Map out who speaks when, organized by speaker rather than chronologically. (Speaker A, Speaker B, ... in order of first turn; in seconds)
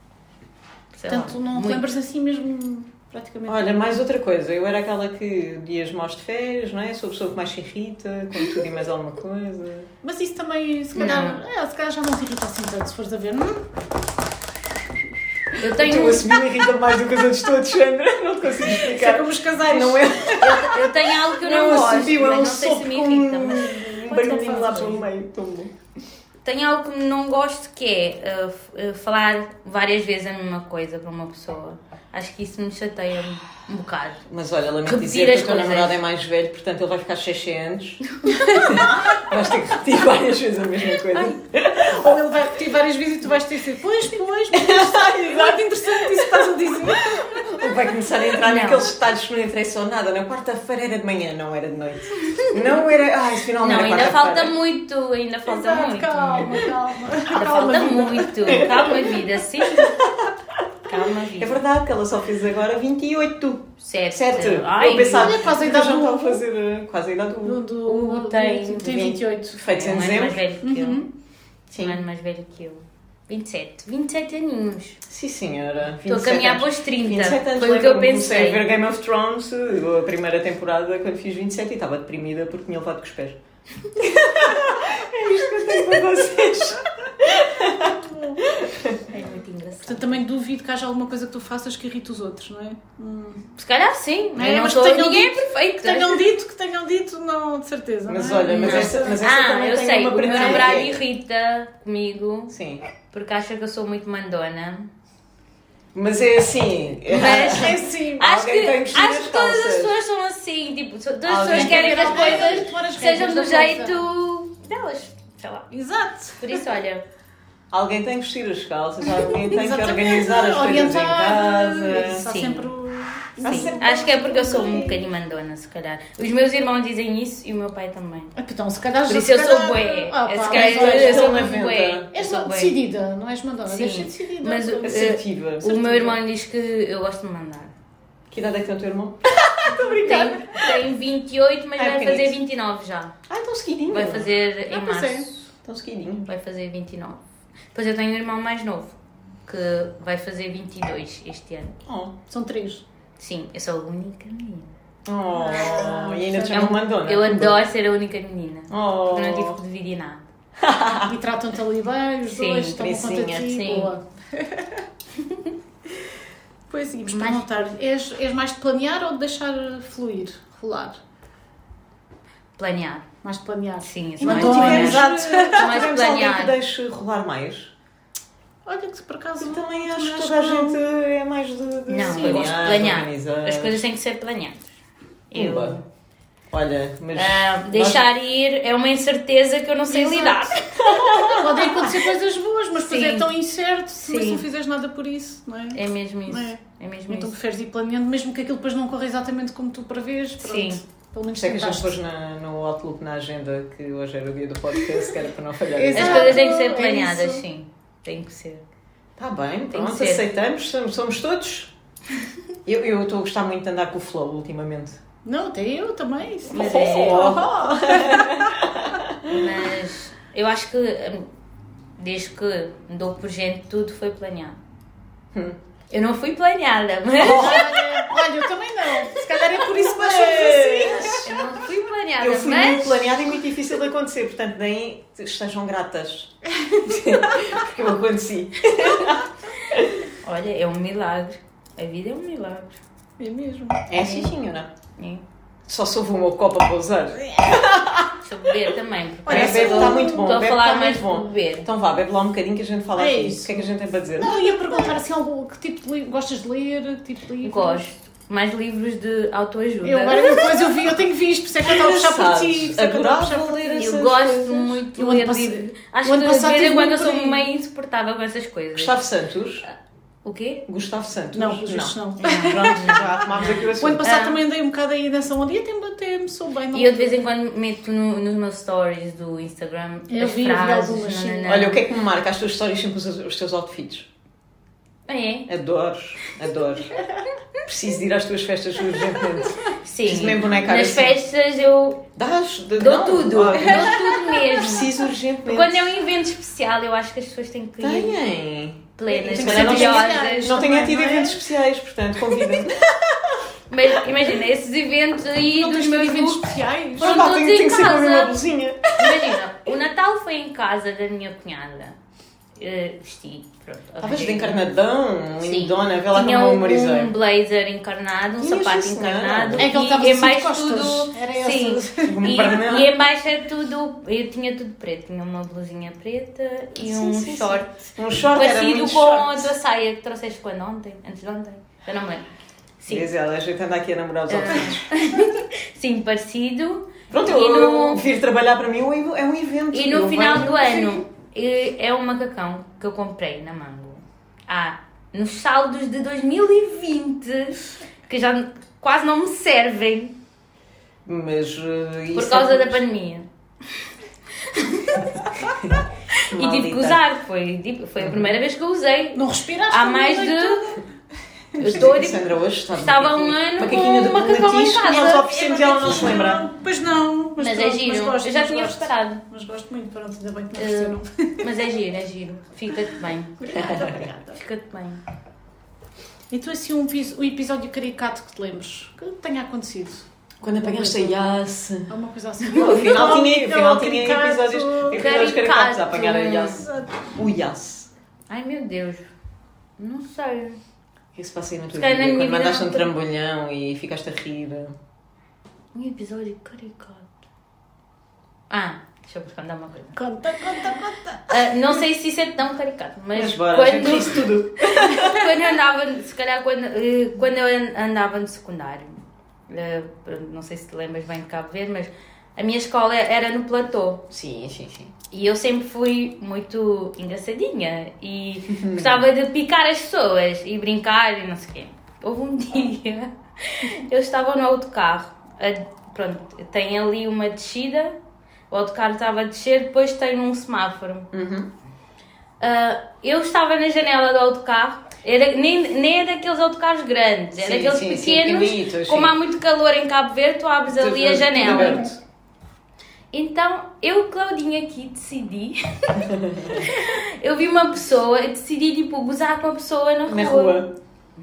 Speaker A: 0.9-1.9, 10.9-11.4, 15.6-16.3, 20.4-25.0, 26.4-34.2, 34.9-36.0, 48.4-48.9, 53.6-56.7, 57.3-60.0, 60.9-61.6, 63.8-65.5, 67.9-71.0, 71.8-75.0, 76.1-78.6, 89.1-90.2, 93.5-96.3, 98.5-102.5, 103.1-104.9, 107.1-115.7, 116.4-117.0, 122.3-122.7, 123.4-128.3, 129.1-132.8, 133.7-137.7, 140.0-143.1, 143.9-145.4, 146.3-147.2, 147.7-151.8, 153.2-154.7, 155.4-155.9, 156.5-160.2, 162.2-162.9, 163.5-163.9, 167.1-167.6, 172.6-173.1, 173.8-176.5, 181.9-184.7, 185.3-185.8, 187.2-191.9, 192.8-193.3, 194.0-194.4, 195.7-197.3, 200.4-200.8, 205.9-208.6, 209.7-210.2, 216.5-217.4, 219.3-221.3, 222.0-224.6, 225.9-227.7, 231.2-233.1, 240.2-242.8, 244.0-244.3, 245.0-245.2, 248.2-251.7, 257.4-260.5, 263.8-268.9, 270.2-270.6, 272.2-274.4, 276.7-281.8, 285.1-285.5, 289.8-292.0, 292.8-294.9, 295.5-298.2, 299.0-300.6, 303.7-306.4, 307.0-308.4, 309.0-312.0, 312.6-314.6, 315.4-332.2, 332.8-333.1, 334.3-338.0, 339.7-350.2, 352.1-353.3, 354.5-355.4, 356.3-360.8, 361.6-365.3, 367.4-369.2, 370.6-375.0, 384.9-386.6, 388.3-389.0, 389.8-390.6, 391.7-392.9, 395.7-397.1, 398.5-414.1, 415.1-427.9, 428.5-431.1, 432.4-441.9, 443.1-450.6
Speaker B: 1.1-4.0, 10.0-13.6, 18.7-20.3, 23.7-25.0, 41.1-47.5, 55.5-59.0, 64.9-66.4, 67.4-69.6, 70.6-71.1, 87.8-88.4, 89.8-93.5, 94.4-99.2, 100.2-100.8, 107.2-108.3, 111.4-114.0, 115.7-116.7, 119.3-124.6, 128.4-131.5, 132.1-135.1, 139.7-140.3, 144.7-145.3, 152.3-152.8, 155.4-156.8, 161.1-164.8, 166.7-171.0, 173.2-175.8, 178.7-180.8, 189.9-190.6, 191.2-202.0, 205.8-207.4, 215.2-218.4, 227.2-231.3, 243.2-243.9, 249.3-250.2, 253.0-257.9, 259.8-263.9, 265.0-267.5, 271.3-277.2, 280.1-281.6, 293.6-294.0, 299.1-301.4, 305.5-307.2, 319.6-322.2, 359.1-360.8, 361.6-361.8, 364.9-371.5, 373.4-374.4, 376.3-380.1, 380.6-381.2, 381.9-385.1, 386.5-387.1, 399.9-401.4
Speaker C: 3.5-9.9, 15.6-25.7, 34.3-38.0, 38.5-42.1, 44.5-54.5, 58.5-58.9, 61.4-67.6, 69.5-70.4, 71.7-72.0, 75.1-83.4, 84.0-89.0, 98.1-101.0, 102.5-102.8, 105.9-110.0, 111.3-112.7, 117.7-122.3, 123.4-125.0, 130.5-132.1, 134.8-136.2, 138.3-140.8, 141.8-142.4, 143.3-144.3, 145.6-146.3, 151.9-152.2, 155.1-157.6, 158.7-159.6, 160.6-161.2, 162.8-163.6, 174.2-177.7, 179.4-183.8, 185.3-185.8, 186.5-188.1, 190.8-191.6, 201.3-206.4, 209.2-211.7, 212.7-215.0, 216.5-219.5, 227.2-228.0, 229.6-231.3, 232.2-240.1, 243.9-244.7, 245.7-248.1, 249.3-254.5, 261.6-264.8, 268.8-269.6, 270.7-274.1, 281.5-284.1, 285.5-287.0, 287.6-291.2, 292.2-295.9, 297.8-303.4, 307.0-309.3, 314.0-317.1, 318.4-319.7, 322.0-322.9, 326.8-329.5, 332.9-334.9, 337.1-341.0, 351.1-352.8, 356.3-357.0, 358.0-358.3, 361.6-366.5, 373.5-374.1, 380.4-387.9, 391.1-394.8, 403.1-405.3, 414.1-414.9, 418.5-419.0, 431.1-431.5, 437.4-439.1, 440.7-442.0, 446.1-446.7, 450.1-450.7